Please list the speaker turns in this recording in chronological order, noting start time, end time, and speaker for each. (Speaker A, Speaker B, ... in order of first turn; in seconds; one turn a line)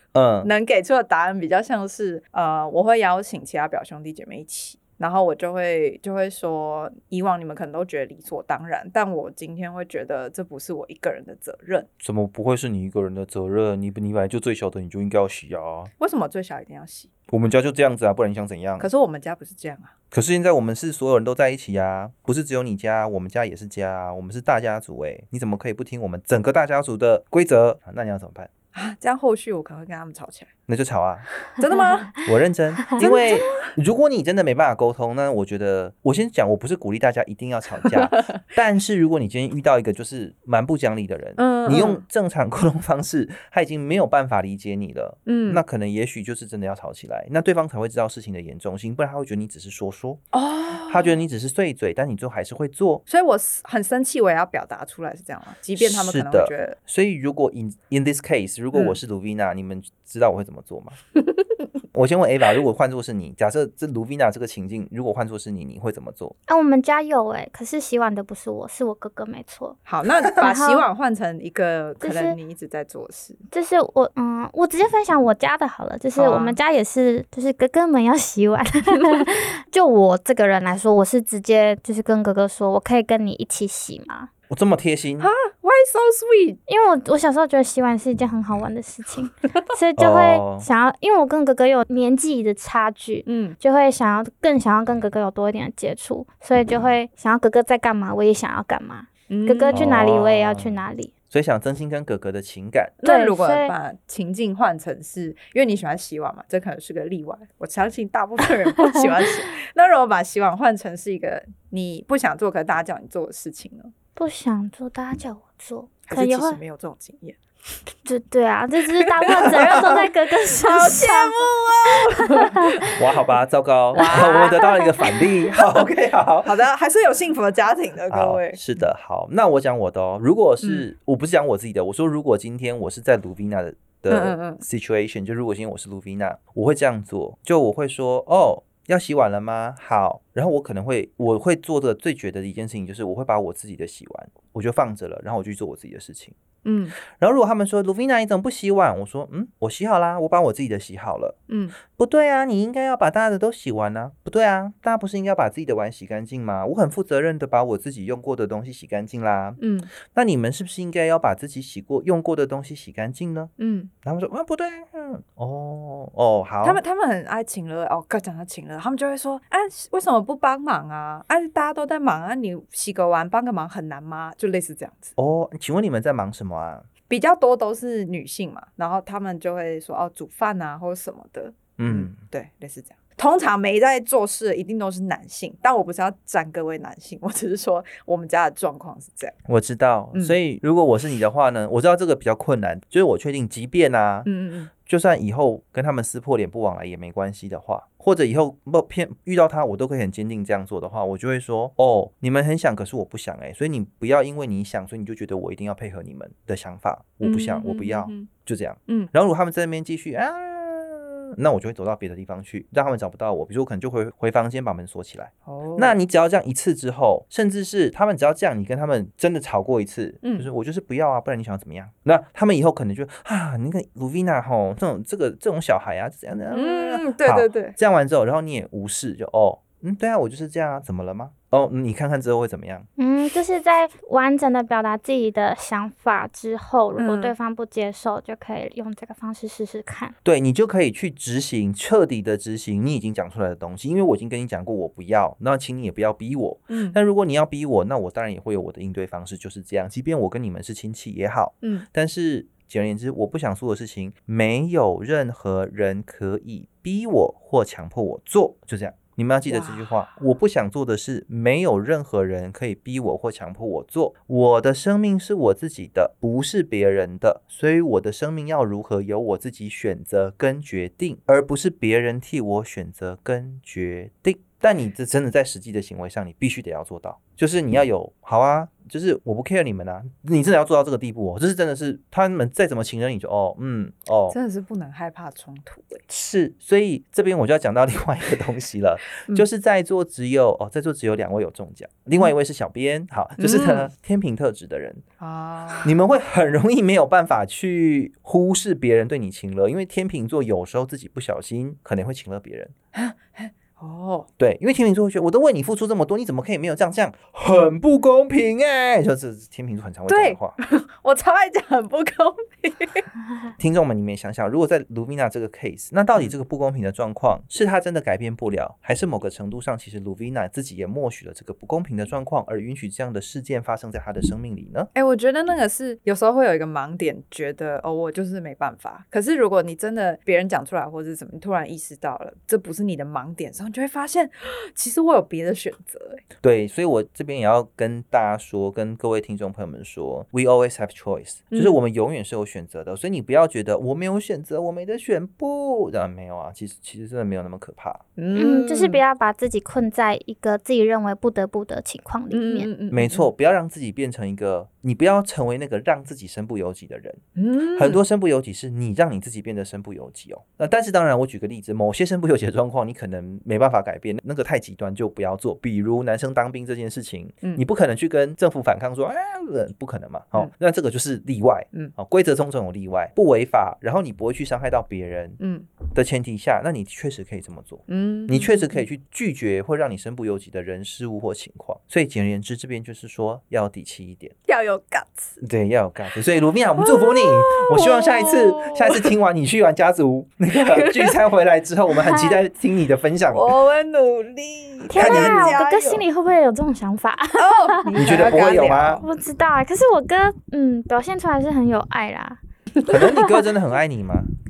Speaker A: 0.1-0.5
Speaker B: 0.4-11.9
Speaker A: 12.0-15.9
Speaker B: 16.0-17.1
Speaker A: 17.3-18.9
Speaker B: 18.8-19.9
Speaker A: 20.1-28.5
Speaker B: 28.7-30.5
Speaker A: 30.7-31.3
Speaker B: 31.6-32.2
Speaker A: 32.2-50.2
Speaker B: 33.0-33.7
Speaker B: 37.8-38.4
Speaker B: 41.4-42.0
Speaker B: 45.2-45.6
Speaker B: 50.3-51.2
Speaker A: 50.9-53.0
Speaker B: 53.1-56.8
Speaker A: 55.8-61.0
Speaker B: 58.7-59.0
Speaker A: 61.9-66.3
Speaker C: 66.5-70.8
Speaker B: 69.8-73.4
Speaker C: 72.0-72.3
Speaker C: 73.5-84.3
Speaker B: 76.2-76.6
Speaker A: 84.5-85.3
Speaker B: 85.2-86.6
Speaker C: 86.7-101.1
Speaker A: 90.0-90.7
Speaker B: 93.2-93.6
Speaker B: 99.3-99.8
Speaker A: 99.7-100.8
Speaker A: 101.3-103.0
Speaker B: 103.0-113.9
Speaker C: 103.0-103.7
Speaker C: 114.2-116.6
Speaker B: 116.1-117.4
Speaker C: 118.0-122.4
Speaker B: 119.0-122.9
Speaker A: 122.9-126.5
Speaker B: 123.9-125.8
Speaker C: 124.1-124.7
Speaker B: 126.4-128.6
Speaker A: 128.1-146.3
Speaker B: 134.1-134.6
Speaker B: 146.6-147.0
Speaker A: 147.0-151.4
Speaker B: 151.5-151.7
Speaker A: 151.9-163.5
Speaker B: 159.6-159.9
Speaker B: 163.6-163.9
Speaker A: 164.0-166.8
Speaker B: 166.6-175.1
Speaker A: 175.2-176.9
Speaker B: 177.1-189.3
Speaker A: 181.8-182.2
Speaker A: 189.4-232.8
Speaker B: 194.2-194.7
Speaker B: 207.2-208.3
Speaker B: 215.4-215.9
Speaker B: 220.2-220.5
Speaker B: 226.5-227.8
Speaker C: 233.0-240.1
Speaker B: 237.0-237.3
Speaker A: 240.2-284.4
Speaker B: 246.7-247.0
Speaker B: 259.5-259.9
Speaker B: 284.3-286.0
Speaker A: 286.1-295.0
Speaker B: 293.4-293.9
Speaker B: 295.2-295.9
Speaker A: 295.8-302.7
Speaker B: 302.9-304.3
Speaker A: 304.4-310.6
Speaker B: 310.1-313.1
Speaker A: 313.6-324.9
Speaker B: 324.9-336.2
Speaker A: 336.4-348.0
Speaker B: 341.5-341.8
Speaker B: 348.2-349.0
Speaker C: 348.3-352.7
Speaker B: 352.3-353.3
Speaker A: 352.9-384.3
Speaker B: 357.4-358.0
Speaker B: 375.4-375.7
Speaker B: 377.9-378.8
Speaker B: 384.5-385.4
Speaker A: 385.4-393.5
Speaker B: 386.8-389.1
Speaker B: 390.5-391.2
Speaker C: 392.1-392.4
Speaker B: 393.3-396.0
Speaker C: 394.9-397.9
Speaker A: 394.9-395.6
Speaker B: 397.4-399.1
Speaker A: 398.0-399.0
Speaker C: 399.0-402.4
Speaker A: 402.9-404.3